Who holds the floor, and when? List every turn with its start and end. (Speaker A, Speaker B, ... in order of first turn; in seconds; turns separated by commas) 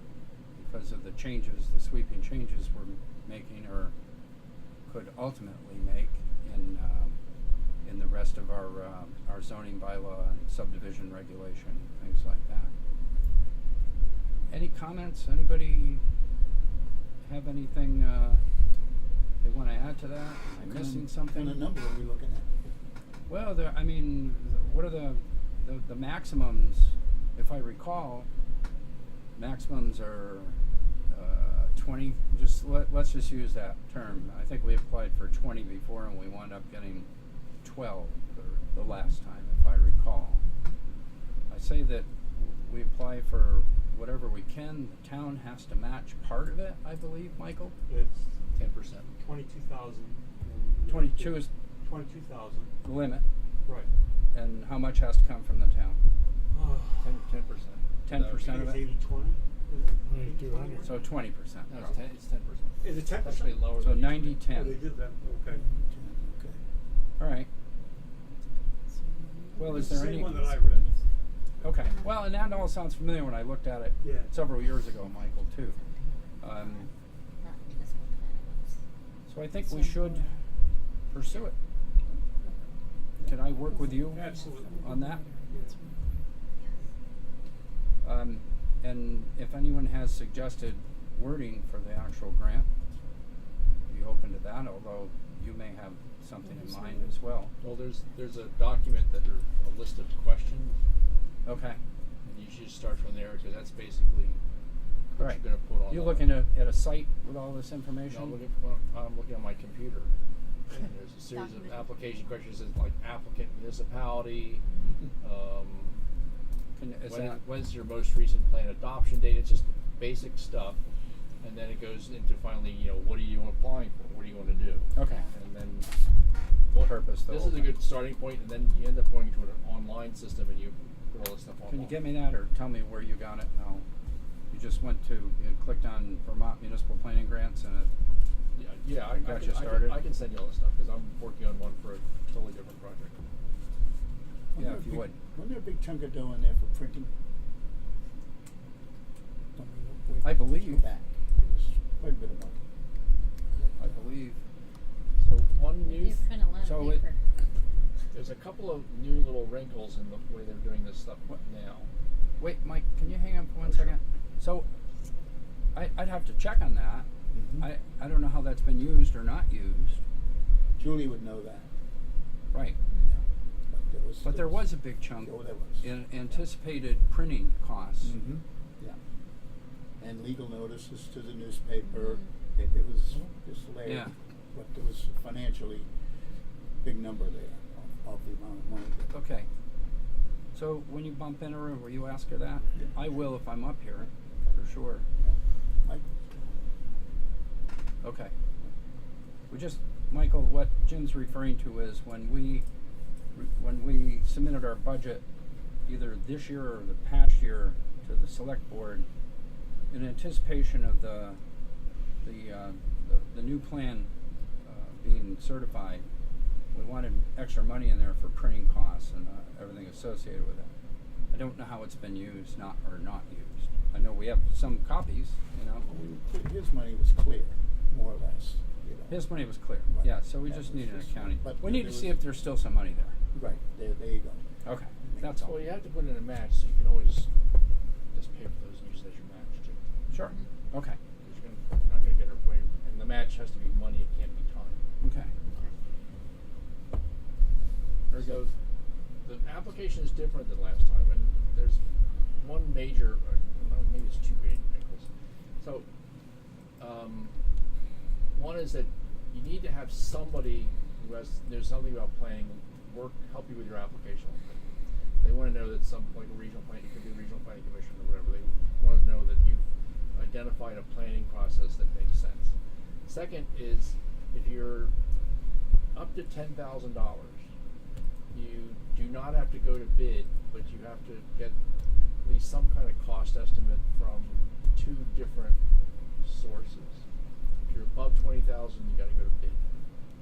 Speaker A: 0.6-3.9, Speaker A: 4.9-7.2, Speaker A: 7.8-12.7, Speaker A: 14.5-16.0, Speaker A: 17.2-18.4, Speaker A: 19.4-21.6, Speaker B: 20.5-22.5, Speaker A: 23.3-28.3, Speaker A: 29.4-30.6, Speaker A: 31.1-37.1, Speaker A: 37.6-40.4, Speaker A: 41.5-47.8, Speaker C: 47.9-48.2, Speaker D: 48.5-49.1, Speaker C: 49.2-52.8, Speaker A: 50.9-51.5, Speaker A: 52.8-53.2, Speaker A: 54.3-56.0, Speaker C: 56.5-57.2, Speaker D: 57.0-58.5, Speaker A: 58.1-58.8, Speaker C: 58.3-61.0, Speaker D: 60.1-60.5, Speaker A: 60.8-62.0, Speaker D: 61.7-64.5, Speaker C: 62.8-63.6, Speaker A: 63.8-64.8, Speaker C: 64.5-65.7, Speaker B: 65.5-66.6, Speaker A: 67.2-67.5, Speaker E: 69.5-70.2, Speaker A: 69.6-70.5, Speaker C: 69.6-71.0, Speaker A: 71.6-75.8, Speaker E: 71.8-72.6, Speaker C: 74.0-74.3, Speaker E: 75.7-76.9, Speaker A: 76.4-76.9, Speaker E: 77.4-78.8, Speaker A: 79.3-80.3, Speaker E: 79.6-80.3, Speaker A: 81.1-81.6, Speaker E: 81.2-81.5, Speaker E: 82.3-82.8, Speaker A: 83.2-85.2, Speaker E: 83.7-86.1, Speaker C: 84.0-84.9, Speaker C: 85.5-85.7, Speaker A: 88.0-92.7, Speaker A: 93.9-97.5, Speaker E: 96.5-97.1, Speaker D: 97.6-100.8, Speaker A: 101.5-101.8, Speaker D: 102.2-104.4, Speaker D: 105.1-106.4, Speaker A: 105.2-108.4, Speaker D: 108.1-110.1, Speaker D: 110.7-114.6, Speaker E: 111.3-112.0, Speaker E: 114.6-115.0, Speaker D: 115.2-116.0, Speaker A: 116.8-117.4, Speaker D: 117.1-120.8, Speaker D: 121.4-125.9, Speaker E: 124.5-125.3, Speaker A: 125.0-125.3, Speaker D: 126.7-132.1, Speaker A: 126.8-127.8, Speaker A: 131.7-133.9, Speaker A: 134.5-137.9, Speaker D: 138.6-143.2, Speaker A: 139.2-140.0, Speaker B: 144.5-147.1, Speaker A: 144.6-145.2, Speaker B: 149.6-152.6, Speaker A: 150.2-150.8, Speaker B: 153.5-154.0, Speaker A: 153.8-154.4, Speaker D: 155.2-156.2, Speaker E: 155.8-157.2, Speaker A: 156.6-157.0, Speaker D: 158.1-161.9, Speaker A: 162.4-164.7, Speaker D: 163.7-163.9, Speaker A: 165.7-167.1, Speaker B: 167.3-167.7, Speaker A: 167.6-170.0, Speaker B: 170.8-171.7, Speaker A: 172.5-172.8, Speaker E: 172.8-173.1, Speaker B: 173.1-174.7, Speaker A: 174.2-178.2, Speaker B: 175.2-176.4, Speaker B: 178.0-179.0, Speaker B: 180.0-185.9, Speaker E: 181.9-182.3, Speaker A: 183.8-184.1, Speaker B: 186.8-189.1, Speaker A: 189.1-189.5, Speaker A: 190.5-195.1, Speaker B: 195.2-196.1, Speaker A: 198.0-198.3, Speaker A: 199.5-202.7, Speaker A: 203.3-205.2, Speaker A: 205.9-209.1, Speaker A: 209.9-211.4, Speaker A: 212.2-214.1, Speaker A: 214.6-216.1, Speaker A: 216.7-220.7, Speaker A: 221.3-225.9, Speaker B: 225.8-229.3, Speaker A: 229.1-233.2, Speaker B: 229.9-232.2, Speaker B: 233.3-234.4, Speaker A: 234.6-235.6, Speaker B: 235.0-235.4, Speaker D: 235.4-237.3, Speaker D: 238.1-239.8, Speaker A: 240.1-241.0, Speaker E: 240.2-240.5, Speaker D: 241.2-244.8, Speaker A: 245.0-245.3, Speaker A: 248.1-248.4, Speaker D: 248.2-248.5, Speaker D: 249.2-251.8, Speaker D: 252.4-255.1, Speaker D: 255.6-255.9, Speaker D: 256.8-257.3, Speaker D: 258.3-264.6, Speaker D: 265.2-269.6, Speaker D: 270.1-272.5, Speaker D: 273.1-274.9, Speaker D: 275.9-277.4, Speaker D: 278.3-281.6, Speaker D: 282.2-285.6, Speaker D: 286.2-287.0, Speaker D: 287.7-289.6